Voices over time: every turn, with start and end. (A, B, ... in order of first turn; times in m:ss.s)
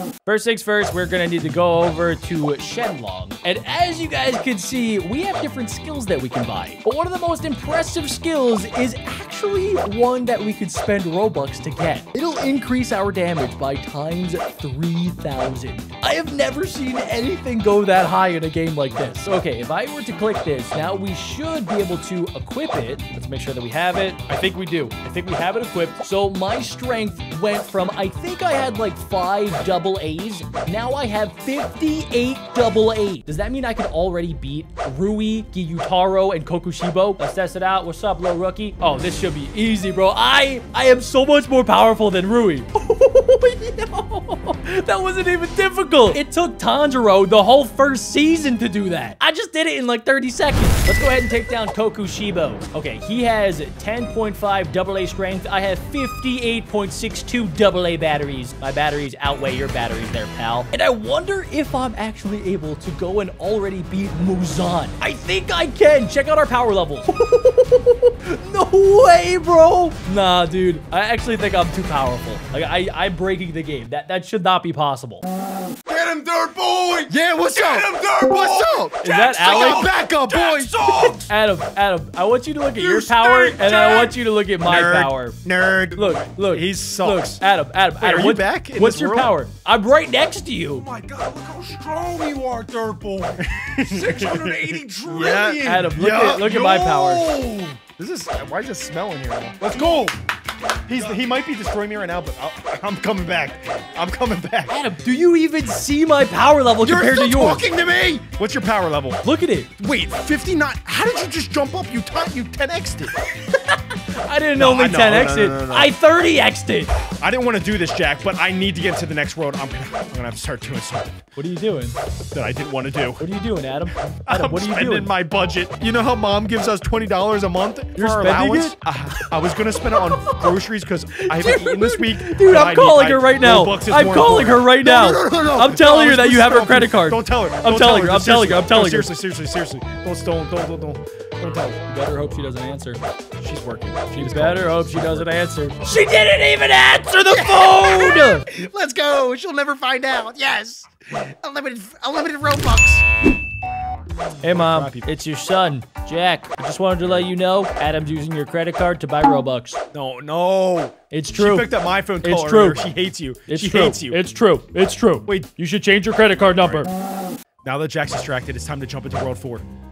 0:00.3-1:15.3 A
1:15.9-1:21.3 B
1:17.1-1:21.2 C
1:19.0-1:19.9 A
1:21.2-1:25.4 A
1:22.8-1:24.1 B
1:24.6-1:27.4 C
1:26.0-1:30.8 A
1:28.0-1:29.3 C
1:30.7-1:37.7 B
1:33.5-1:36.6 C
1:35.6-1:37.3 A
1:37.8-1:40.1 C
1:40.9-1:44.8 C
1:44.7-1:47.7 A
1:46.8-1:49.2 C
1:49.2-1:49.7 A
1:49.8-1:53.1 C
1:53.3-1:56.9 A
1:54.6-1:55.9 C
1:57.1-2:01.2 C
2:01.4-2:02.0 A
2:02.3-2:03.3 C
2:03.2-2:05.1 A
2:04.2-2:21.8 C
2:08.0-2:08.8 A
2:10.0-2:10.4 A
2:11.1-2:19.1 A
2:21.5-2:23.0 A
2:23.4-2:25.3 C
2:24.1-2:28.5 A
2:27.3-2:33.0 C
2:34.4-2:39.8 A
2:34.4-2:35.1 C
2:39.9-2:44.2 C
2:41.1-2:41.7 A
2:42.2-2:42.8 A
2:43.5-2:46.9 A
2:46.5-2:46.9 C
2:47.6-2:49.7 C